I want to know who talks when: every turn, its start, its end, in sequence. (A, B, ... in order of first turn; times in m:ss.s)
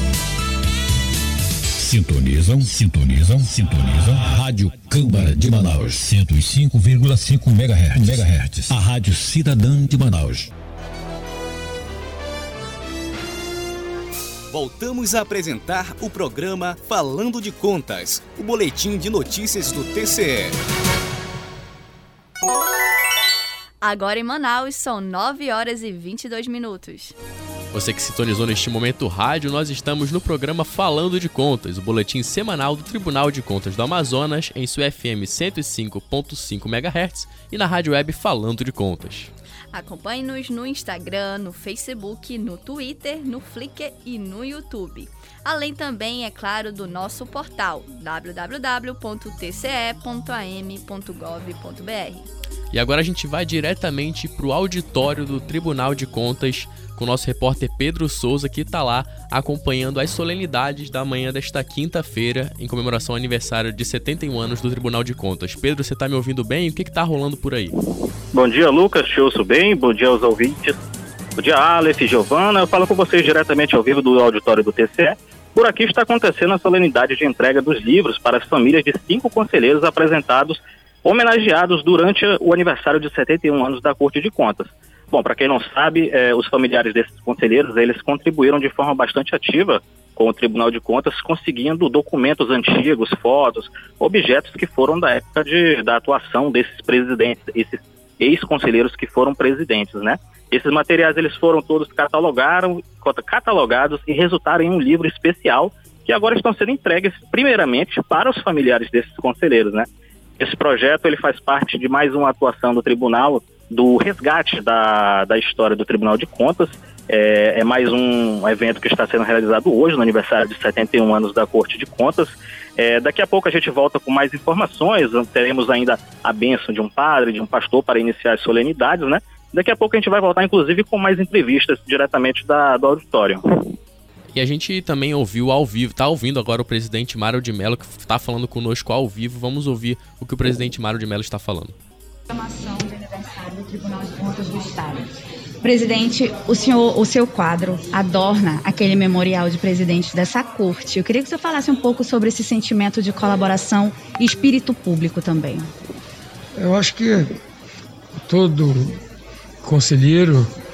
0:01.8-0:10.5 A
0:14.5-0:20.6 B
0:23.8-0:27.1 C
0:27.7-0:39.3 D
0:39.7-0:52.3 C
0:52.7-1:07.7 D
1:08.3-1:10.8 E
1:11.4-1:49.9 E
1:50.4-2:13.7 E
2:14.3-2:21.7 D
2:22.3-2:25.1 F
2:25.6-2:35.7 F
2:36.6-2:37.3 G
2:38.3-2:39.0 G
2:39.6-2:40.5 G